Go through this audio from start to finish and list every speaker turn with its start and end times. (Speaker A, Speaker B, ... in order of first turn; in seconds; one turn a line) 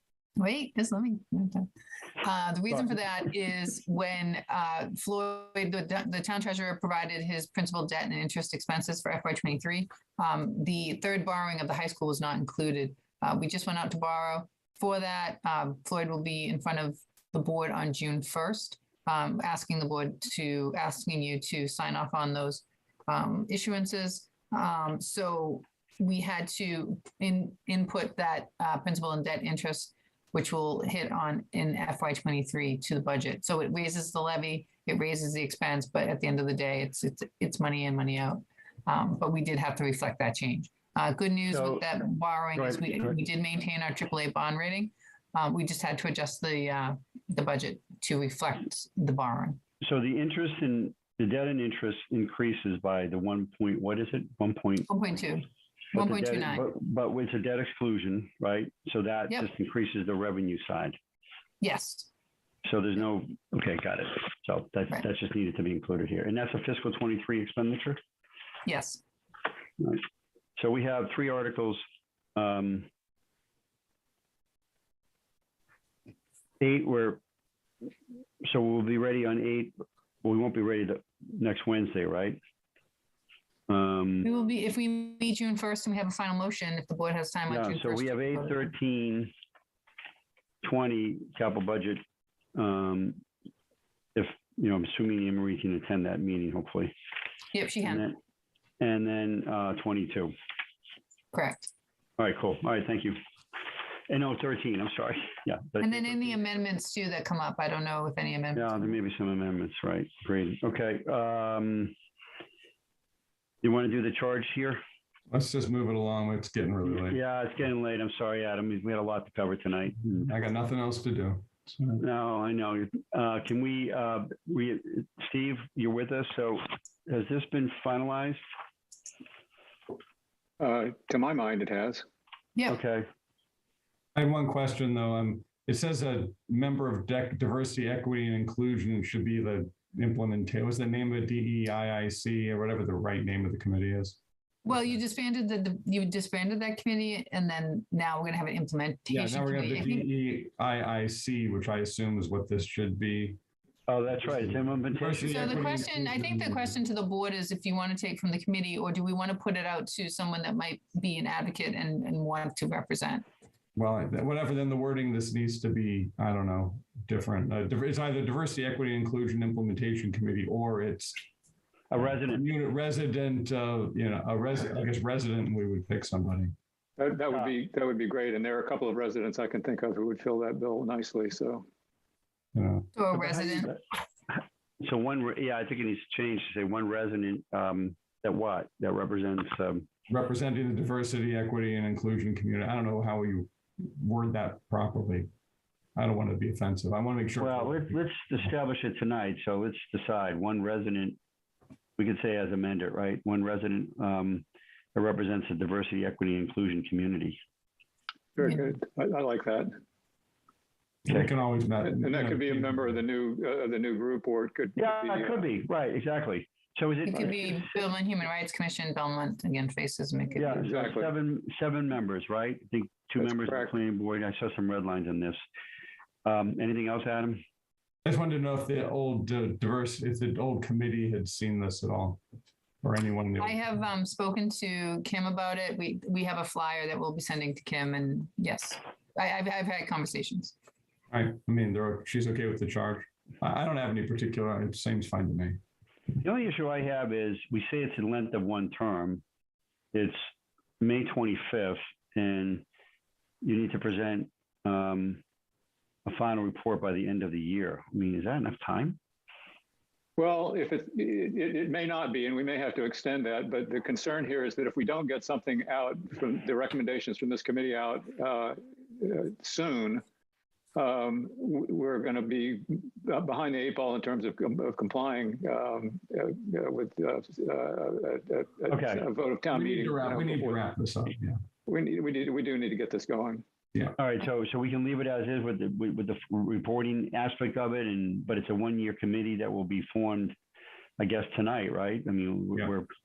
Speaker A: 0.4-1.7
Speaker A: 2.2-49.6
Speaker B: 41.5-41.8
Speaker B: 42.5-43.2
Speaker B: 49.8-54.9
Speaker A: 54.9-56.7
Speaker B: 55.9-61.0
Speaker A: 61.6-62.1
Speaker B: 62.6-68.0
Speaker A: 68.6-69.0
Speaker B: 70.6-71.8
Speaker B: 72.3-72.9
Speaker B: 76.6-77.2
Speaker B: 78.4-79.7
Speaker B: 80.2-82.4
Speaker B: 83.7-84.3
Speaker A: 84.2-88.7
Speaker B: 87.5-89.3
Speaker B: 90.6-92.0
Speaker B: 92.5-93.2
Speaker B: 94.2-96.9
Speaker A: 97.5-98.0
Speaker B: 97.8-98.2
Speaker B: 98.8-100.3
Speaker A: 101.3-101.7
Speaker B: 102.2-103.2
Speaker B: 104.1-106.4
Speaker A: 105.8-108.9
Speaker B: 108.5-111.9
Speaker B: 113.6-114.8
Speaker C: 115.3-117.2
Speaker B: 116.8-120.3
Speaker C: 120.2-122.0
Speaker B: 122.0-128.4
Speaker D: 130.6-132.0
Speaker B: 132.7-133.1
Speaker C: 134.1-144.9
Speaker A: 144.6-150.1
Speaker C: 149.1-153.4
Speaker B: 153.9-155.6
Speaker C: 154.2-156.7
Speaker A: 155.2-163.2
Speaker C: 163.8-171.2
Speaker B: 171.9-172.4
Speaker C: 171.9-176.5
Speaker D: 177.0-181.7
Speaker C: 182.5-182.9
Speaker A: 182.9-183.7
Speaker B: 183.1-183.8
Speaker B: 184.8-189.9
Speaker C: 190.1-195.3
Speaker C: 195.9-198.0
Speaker B: 197.4-201.2
Speaker B: 202.0-204.4
Speaker B: 204.9-207.4
Speaker D: 208.3-209.7
Speaker C: 211.1-213.0
Speaker D: 211.8-215.5
Speaker B: 214.8-217.6
Speaker A: 217.1-220.7
Speaker B: 220.3-225.4
Speaker D: 220.6-221.1
Speaker D: 223.2-223.7
Speaker B: 226.2-227.4
Speaker C: 228.0-232.2
Speaker C: 232.8-233.6
Speaker A: 233.4-240.5
Speaker C: 241.1-245.6
Speaker B: 246.2-249.2
Speaker B: 249.9-250.2
Speaker B: 250.8-252.6
Speaker B: 253.4-255.2
Speaker B: 256.1-259.0
Speaker D: 260.2-270.0
Speaker D: 270.7-280.6
Speaker B: 278.7-279.1
Speaker C: 279.5-281.4
Speaker D: 281.7-283.4
Speaker B: 284.0-290.4
Speaker B: 291.0-292.9